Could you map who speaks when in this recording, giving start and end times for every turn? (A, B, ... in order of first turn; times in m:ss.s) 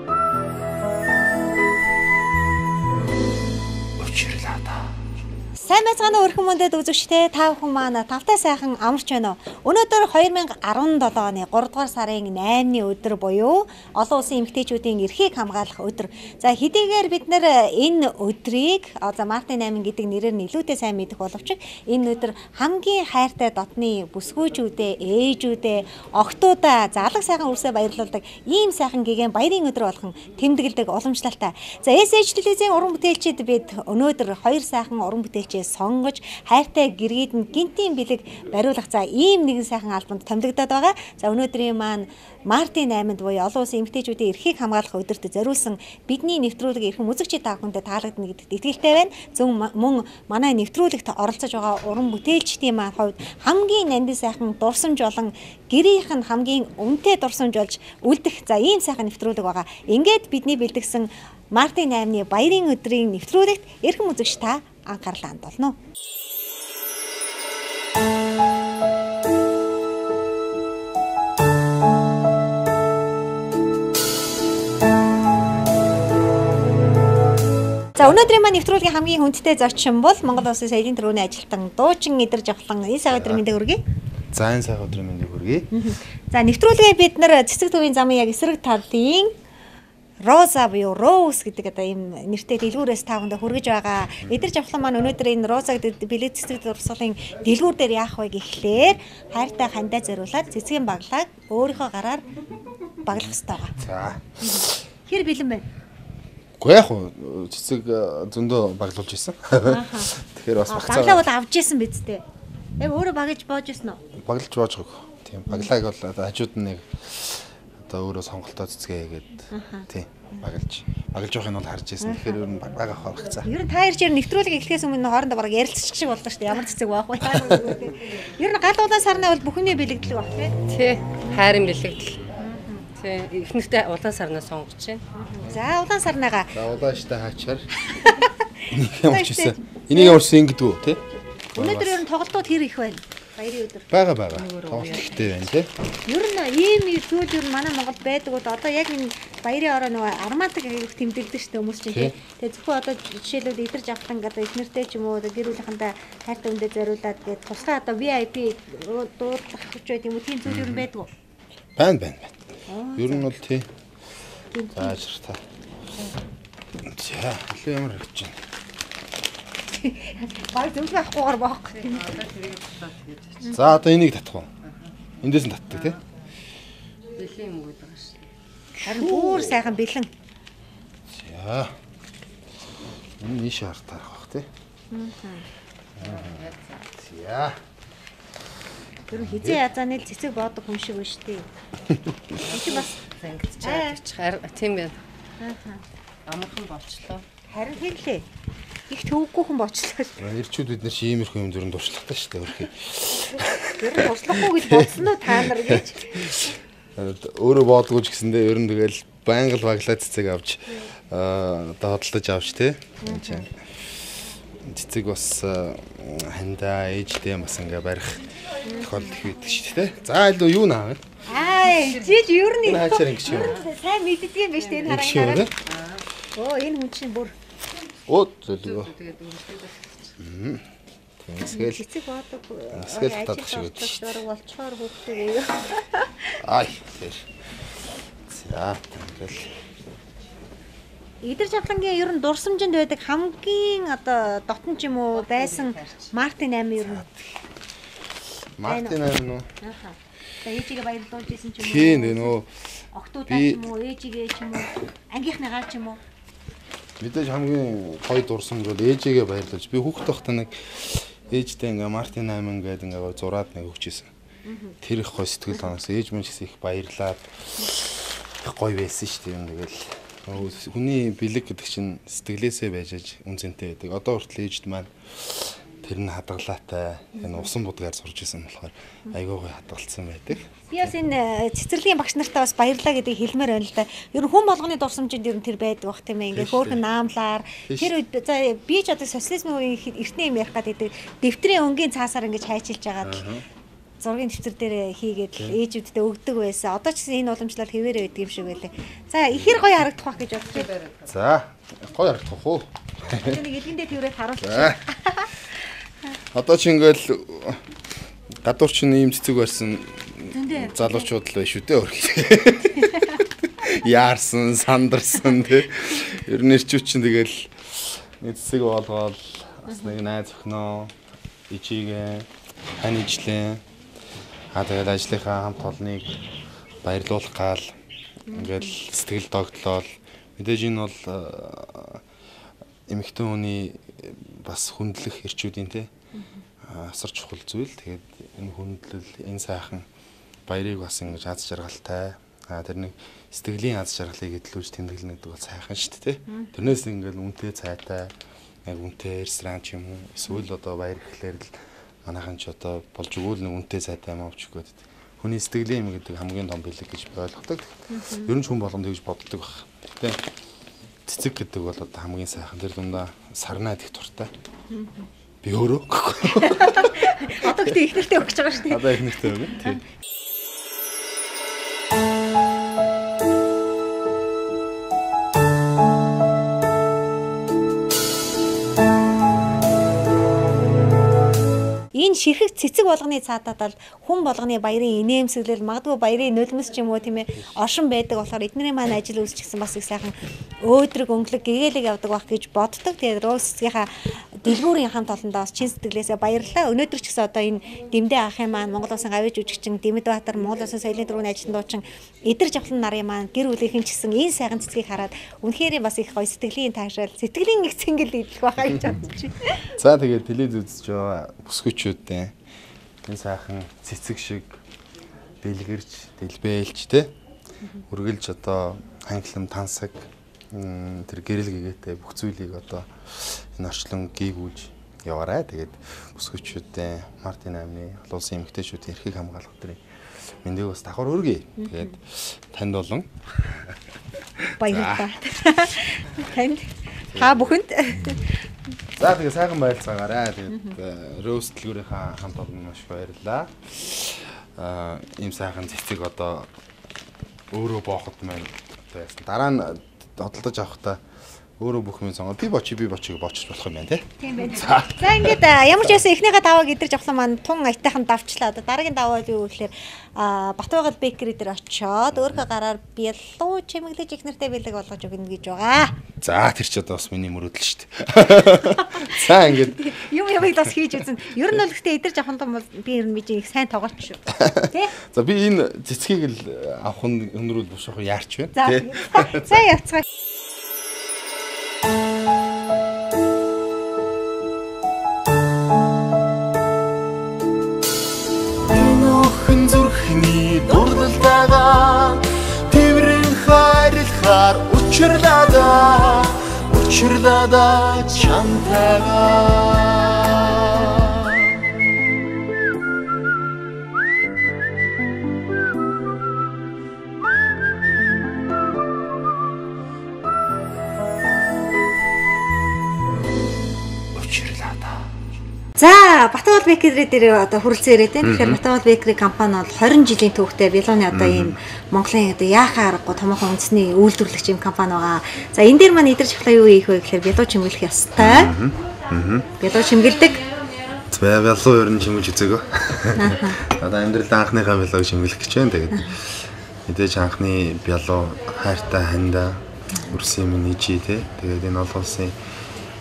0:04.0-0:04.8 A
0:05.6-1:05.8 B
1:18.0-1:23.8 B
1:23.1-1:23.4 A
1:24.3-1:25.7 A
1:25.7-1:29.3 B
1:30.2-1:42.3 B
1:34.2-1:34.5 A
1:43.0-1:43.8 B
1:43.1-1:44.8 A
1:44.4-1:45.6 B
1:46.6-1:51.3 A
1:49.6-1:50.1 B
1:50.7-1:52.2 B
1:52.8-1:54.0 B
1:54.2-2:03.5 A
1:59.5-2:00.4 B
2:02.0-2:02.4 B
2:03.4-2:10.6 B
2:07.3-2:07.8 A
2:10.7-2:12.2 C
2:12.4-2:12.9 B
2:13.0-2:15.0 C
2:15.3-2:16.5 B
2:16.6-2:17.7 A
2:17.9-2:20.2 B
2:18.7-2:22.0 A
2:21.6-2:23.9 B
2:23.9-2:25.7 A
2:24.4-2:25.2 C
2:26.1-2:41.1 B
2:31.9-2:32.2 A
2:40.5-2:40.9 A
2:41.8-2:42.4 A
2:42.7-2:43.4 B
2:43.0-2:43.7 A
2:44.5-2:45.0 B
2:44.8-2:45.4 A
2:46.8-2:48.4 A
2:49.8-2:52.2 B
2:51.8-2:53.4 C
2:53.5-2:54.5 A
2:55.2-2:56.0 A
2:57.2-2:58.2 C
2:58.8-2:59.6 A
2:58.8-3:00.1 B
3:01.1-3:01.7 A
3:03.2-3:04.5 A
3:04.9-3:05.5 B
3:06.0-3:07.6 A
3:06.0-3:06.7 C
3:09.1-3:11.5 B
3:09.2-3:09.6 A
3:11.9-3:12.2 A
3:12.4-3:15.0 C
3:12.5-3:13.0 B
3:13.6-3:14.0 B
3:15.4-3:15.8 B
3:16.3-3:17.2 C
3:17.5-3:18.2 B
3:18.9-3:20.2 B
3:20.2-3:33.6 A
3:23.8-3:26.3 B
3:33.0-3:33.4 B
3:34.6-3:41.0 A
3:38.6-3:39.1 B
3:41.3-3:45.5 B
3:41.7-3:42.2 C
3:42.6-3:43.6 A
3:44.8-3:45.6 A
3:45.7-3:46.0 C
3:46.4-3:47.4 B
3:48.1-3:48.9 A
3:48.6-3:49.9 C
3:50.2-3:50.6 A
3:51.2-3:51.9 A
3:51.5-3:56.4 B
3:52.7-3:54.1 A
3:56.4-3:57.3 A
3:58.3-3:59.5 A
4:01.2-4:07.1 B
4:05.3-4:06.0 C
4:06.8-4:07.3 A
4:08.6-4:09.5 A
4:08.7-4:09.0 B
4:09.6-4:12.4 B
4:11.6-4:12.5 A
4:12.9-4:16.0 B
4:13.3-4:13.7 A
4:17.0-4:24.1 A
4:24.5-4:24.8 B
4:24.8-4:40.9 A
4:37.2-4:37.5 B
4:40.7-4:53.2 B
4:46.3-4:46.8 A
4:47.7-4:47.9 A
4:53.0-4:53.4 A
4:54.0-5:00.7 B
4:59.3-4:59.8 A
5:00.7-5:01.0 C
5:01.1-5:03.4 A
5:03.2-5:05.3 B
5:04.4-5:04.8 A
5:06.3-5:07.6 A
5:08.4-5:20.9 A
5:10.3-5:11.1 B
5:19.7-5:19.9 B
5:21.5-5:22.3 A
5:22.8-5:23.6 A
5:24.5-5:26.1 A
5:26.8-5:27.7 A
5:28.3-5:28.7 B
5:28.3-5:32.0 A
5:32.9-5:35.9 A
5:36.6-5:39.9 A
5:40.5-5:48.1 A
5:46.3-5:46.7 B
5:48.6-5:51.5 A
5:52.0-5:57.7 A
5:57.9-5:58.3 B
5:58.2-6:00.2 A
6:01.1-6:04.3 A
6:04.7-6:05.1 B
6:05.4-6:07.8 A
6:06.3-6:09.8 B
6:08.7-6:09.8 A
6:21.9-6:49.7 B
6:49.8-6:52.3 A
6:53.1-6:54.6 A
6:55.4-6:57.1 A
6:57.9-7:09.8 A
7:10.4-7:13.8 A
7:11.6-7:11.9 B
7:14.4-7:15.1 A
7:14.6-7:18.4 B
7:17.1-7:17.6 A
7:19.0-7:26.5 A
7:27.5-7:31.0 A
7:31.6-7:36.0 A
7:34.2-7:46.0 B
7:46.2-7:50.0 A
7:48.8-7:54.9 B
7:54.4-7:59.6 A
7:58.6-8:00.0 B
8:08.7-8:21.5 C
8:34.2-8:34.9 A
8:35.8-8:48.5 B
8:38.2-8:38.6 A
8:41.1-8:41.6 A
8:48.2-8:49.5 A
8:49.6-8:50.4 B
8:51.1-9:02.4 A
8:53.2-8:53.6 B